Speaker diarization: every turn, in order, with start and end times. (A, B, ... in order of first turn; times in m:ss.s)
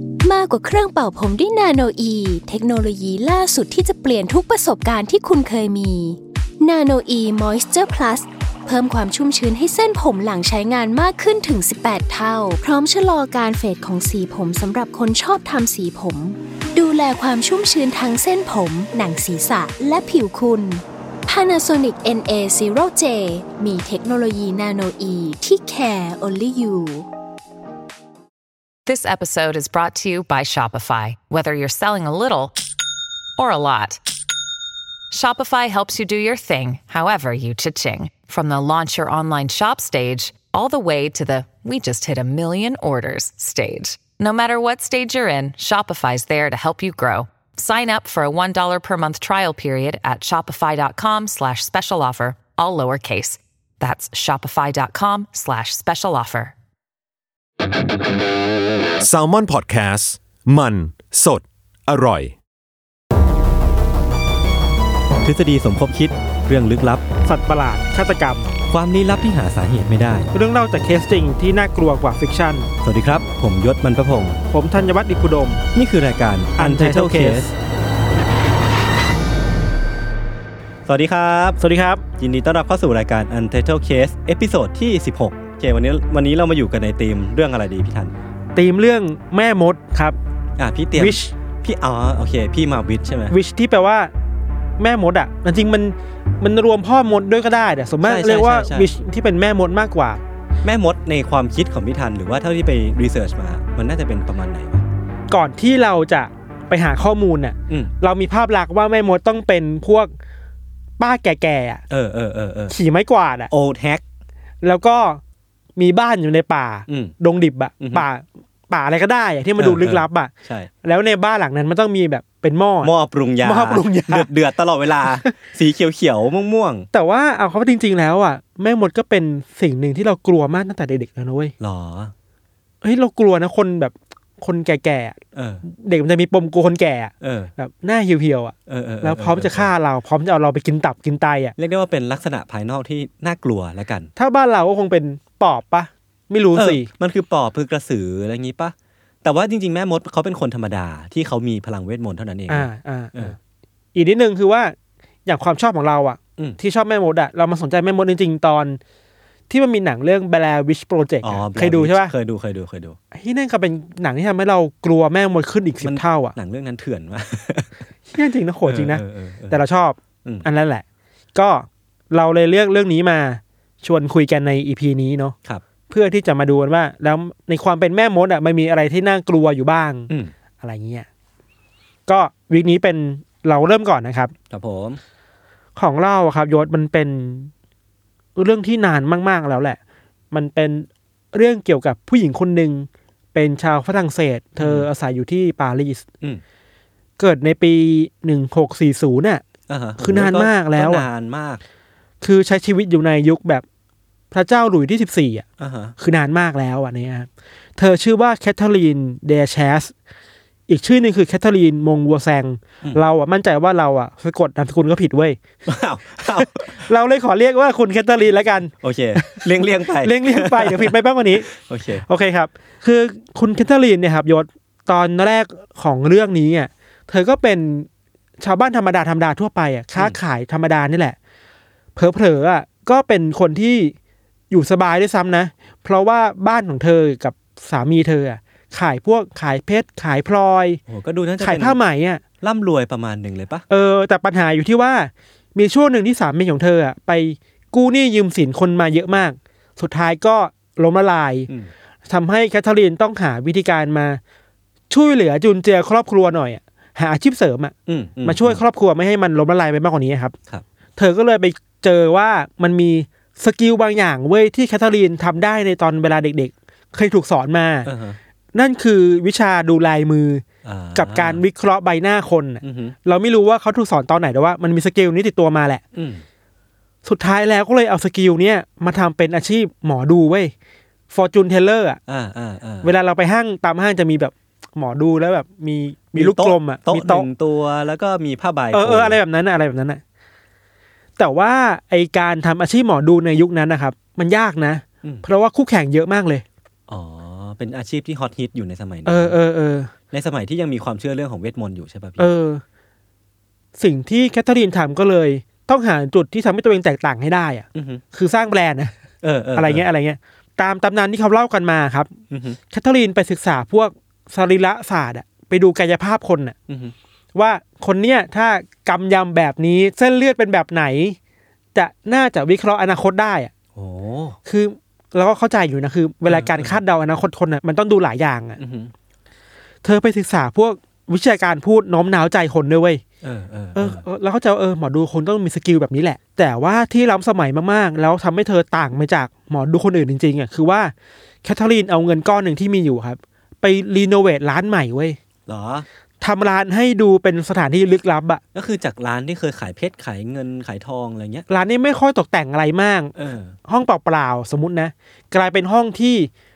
0:00.2-0:27.1 A
0:28.9-0:32.6 B
0:33.4-0:34.0 B
0:35.1-0:56.5 B
0:59.0-1:02.4 C
1:05.2-1:07.1 D
1:07.3-1:08.5 E
1:08.7-1:10.3 D
1:10.3-1:12.7 E
1:12.8-1:14.4 D
1:14.5-1:15.6 E
1:15.7-1:17.5 D
1:16.6-1:17.5 E
1:20.9-1:21.6 D
1:21.6-1:22.0 E
1:22.2-1:28.2 D
1:28.6-1:30.2 E
1:30.6-1:33.4 D
1:31.0-1:31.3 E
1:33.3-1:34.1 E
1:34.8-1:40.2 E
1:38.0-1:38.9 D
1:40.6-1:44.9 D
1:45.3-1:50.1 E
1:47.7-1:47.9 D
1:51.0-1:51.8 E
1:51.9-1:52.8 D
1:52.7-1:53.5 E
1:53.5-1:54.0 D
1:54.6-1:55.2 E
1:55.8-2:00.3 E
1:56.9-1:57.2 D
1:57.8-1:58.1 D
1:59.6-2:00.7 D
2:00.8-2:04.3 E
2:02.8-2:06.9 D
2:05.0-2:05.4 E
2:06.9-2:11.5 E
2:11.6-2:12.1 D
2:12.8-2:21.6 E
2:15.4-2:15.6 D
2:17.2-2:17.5 D
2:18.7-2:19.7 D
2:21.6-2:24.1 D
2:24.2-2:26.9 E
2:26.6-2:33.4 D
2:32.5-2:33.4 E
2:33.9-2:34.8 E
2:35.3-2:38.8 E
2:39.5-2:42.1 E
2:41.2-2:43.0 D
2:43.1-2:46.4 E
2:45.8-2:47.8 D
2:48.1-2:50.8 E
2:48.6-2:49.6 D
2:51.4-2:55.4 E
2:55.9-3:00.1 E
3:00.6-3:01.1 E
3:02.1-3:04.3 E
3:04.5-3:05.0 D
3:05.8-3:07.5 E
3:08.4-3:09.8 E
3:10.3-3:16.0 E
3:14.6-3:14.9 D
3:17.2-3:19.4 E
3:19.7-3:21.6 D
3:20.0-3:21.0 E
3:22.2-3:23.6 E
3:24.3-3:25.4 E
3:25.6-3:26.0 D
3:26.0-3:29.9 E
3:30.7-3:35.4 E
3:35.7-3:36.9 D
3:36.2-3:47.9 E
3:38.8-3:42.0 D
3:48.4-3:51.2 E
3:52.0-3:54.0 E
3:54.5-4:00.8 E
4:00.9-4:01.8 D
4:01.4-4:02.2 E
4:02.4-4:03.6 D
4:03.7-4:11.5 E
4:12.1-4:14.2 E
4:14.9-4:20.4 E
4:17.9-4:18.6 D
4:21.0-4:27.9 E
4:27.8-4:28.2 D
4:28.5-4:30.4 E
4:30.6-4:31.4 D
4:31.0-4:35.8 E
4:32.6-4:33.0 D
4:35.9-4:36.2 D
4:37.0-4:40.5 E
4:41.1-4:42.0 E
4:42.1-4:42.9 D
4:42.8-4:47.3 E
4:46.1-4:49.2 D
4:48.7-4:50.0 E
4:51.2-4:56.4 E
4:56.9-4:59.4 D
4:59.1-4:59.9 E
5:00.1-5:02.3 D
5:02.2-5:02.6 E
5:03.8-5:09.0 E
5:07.8-5:08.0 D
5:09.2-5:09.9 D
5:09.6-5:12.1 E
5:12.3-5:12.6 D
5:12.7-5:16.6 E
5:16.7-5:17.0 D
5:17.4-5:21.2 E
5:21.8-5:23.5 E
5:23.8-5:24.4 D
5:24.4-5:28.6 E
5:26.3-5:26.8 D
5:28.6-5:28.9 D
5:29.8-5:33.0 E
5:33.2-5:34.0 D
5:33.8-5:40.9 E
5:41.4-5:45.2 E
5:45.5-5:45.9 D
5:46.2-5:48.4 E
5:48.5-5:51.5 D
5:51.5-5:53.1 E
5:53.2-5:53.6 D
5:53.6-5:56.3 E